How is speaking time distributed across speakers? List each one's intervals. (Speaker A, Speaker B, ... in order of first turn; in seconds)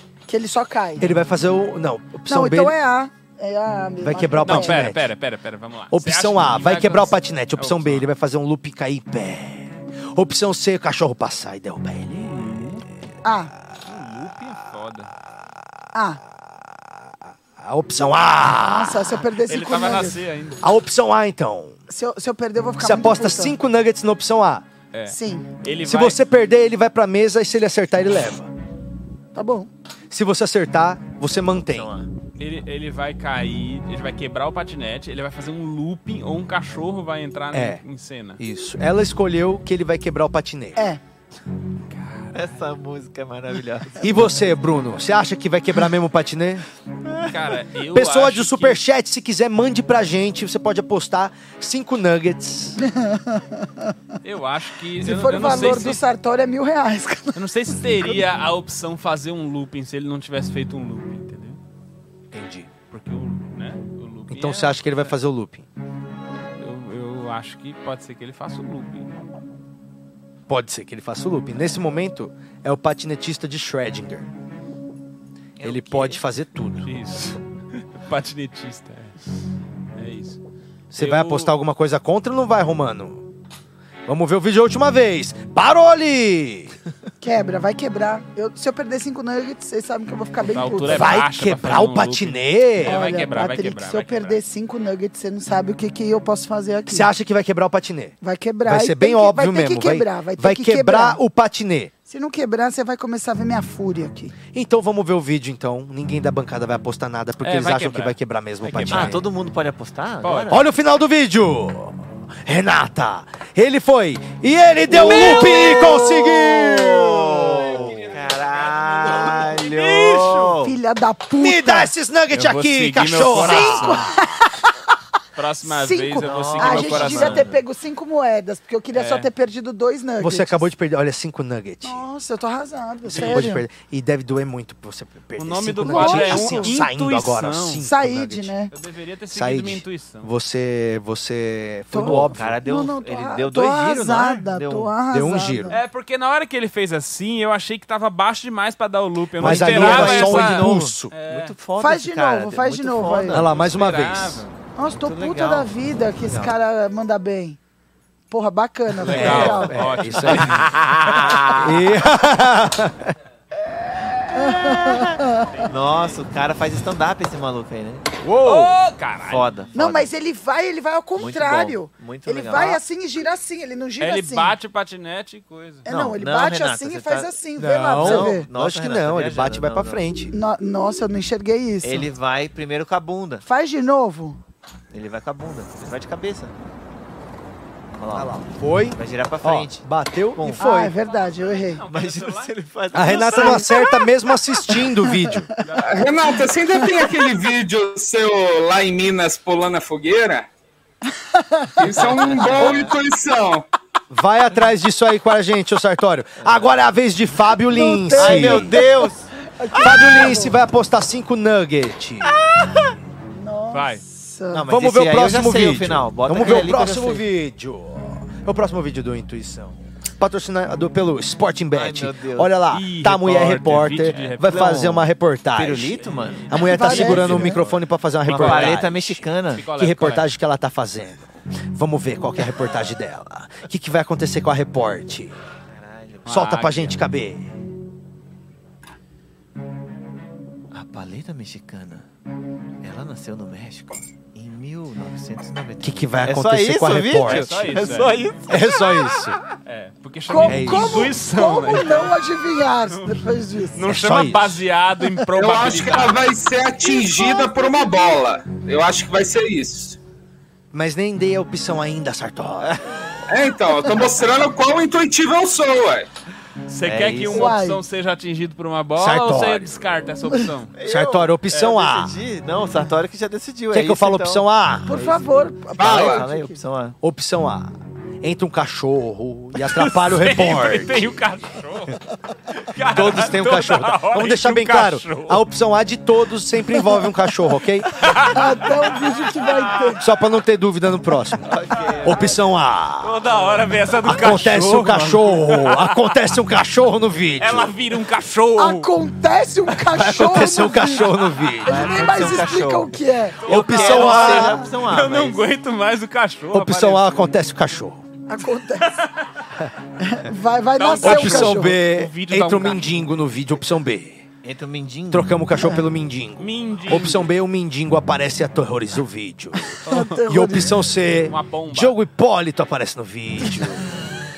Speaker A: 0.3-1.1, 2.3-4.9, 13.2-13.5, 15.9-16.2, 18.5-20.2, 21.9-23.5, 25.1-25.4, 29.3-29.7, 52.8-53.6, 55.0-58.2, 87.2-91.1, 92.8-97.1, 98.2-101.2, 102.1-104.3, 120.6-121.9, 123.3-124.7, 125.6-130.7, 131.8-133.6, 135.8-136.7, 137.8-138.7, 141.9-145.8, 151.8-153.4, 154.8-157.6, 158.3-159.8, 164.3-165.5, 169.7-174.5, 175.8-178.5, 180.3-182.1, 183.4-184.4, 190.6-191.8, 193.3-193.8, 194.7-195.8, 196.8-197.1, 201.2-201.8, 207.7-210.6, 213.3-214.6, 226.6-227.6, 250.3-253.8, 256.8-258.2, 267.3-267.8, 274.9-276.6, 288.3-290.0, 298.6-303.4, 308.3-309.0, 310.0-311.8, 315.6-315.8, 319.9-320.8
Speaker B: 1.0-2.8, 4.0-5.1, 5.9-12.7, 17.6-19.2, 20.6-21.8, 22.8-24.6, 25.8-28.5, 30.1-31.9, 37.5-37.8, 38.4-40.8, 44.0-46.6, 47.9-52.8, 62.3-62.7, 64.3-65.7, 70.5-74.3, 75.6-76.9, 80.9-83.2, 84.1-86.7, 90.9-93.0, 96.9-101.9, 104.5-109.2, 110.5-117.9, 121.4-124.1, 130.2-132.0, 133.1-138.5, 139.3-142.6, 145.1-145.8, 149.4-151.1, 153.3-154.4, 159.1-160.7, 161.5-163.1, 168.2-168.7, 177.6-180.3, 188.1-190.9, 192.9-195.5, 204.1-208.8, 209.8-212.3, 214.7-226.0, 226.5-229.2, 229.8-235.3, 236.3-237.5, 245.8-249.4, 250.5-251.1, 253.8-254.6, 260.7-262.8, 268.9-269.7, 270.8-272.1, 273.7-275.0, 277.0-281.3, 282.8-288.1, 290.0-291.5, 292.0-293.2, 294.0-297.7, 299.8-301.9, 303.4-304.6, 306.5-308.0, 311.0-314.2, 315.1-324.0
Speaker C: 4.5-8.1, 12.2-12.8, 13.9-15.1, 19.5-20.6, 24.9-26.2, 32.4-38.4, 41.9-42.5, 47.1-48.8, 54.2-56.0, 57.3-61.6, 62.9-65.1, 66.6-69.1, 76.8-79.1, 80.0-80.4, 81.0-81.5, 90.4-94.4, 107.4-109.2, 110.2-110.6, 114.9-116.1, 117.4-120.6, 122.3-124.2, 125.3-127.5, 128.9-129.3, 133.1-133.5, 135.3-137.8, 138.7-140.3, 145.7-151.6, 153.5-154.5, 159.0-161.5, 165.3-166.2, 168.4-169.5, 174.0-175.8, 191.0-193.6, 195.6-196.1, 213.7-214.0, 222.7-224.9, 226.6-228.8, 229.5-230.3, 236.2-237.0, 247.2-248.2, 249.7-252.2, 252.9-253.2, 253.7-256.2, 266.7-270.7, 279.6-285.4, 287.9-290.0, 293.0-296.1, 297.4-298.9, 303.4-307.2, 310.8-312.9, 316.4-317.3, 319.8-320.2, 321.2-321.9
Speaker D: 31.3-32.1, 42.3-44.0, 47.0-47.5, 75.6-76.2, 108.8-110.7, 114.9-120.8, 126.2-127.6, 142.0-144.9, 149.4-153.9, 154.9-156.6, 160.2-161.7, 164.6-168.0, 169.2-170.1, 171.2-172.8, 175.9-177.3, 178.0-180.0, 181.8-183.4, 184.9-186.5, 187.9-190.6, 191.9-193.8, 202.0-202.9, 206.4-206.8, 208.1-210.3, 212.2-212.9, 214.5-217.3, 221.7-222.6, 224.1-227.6, 228.2-229.7, 235.7-236.7, 240.7-242.1, 242.8-249.1, 262.6-263.0, 266.8-267.5, 270.8-277.0, 291.4-292.3, 301.6-305.5, 314.4-315.5
Speaker E: 195.8-200.5, 201.8-203.7, 255.3-260.0, 263.3-266.1, 275.8-276.2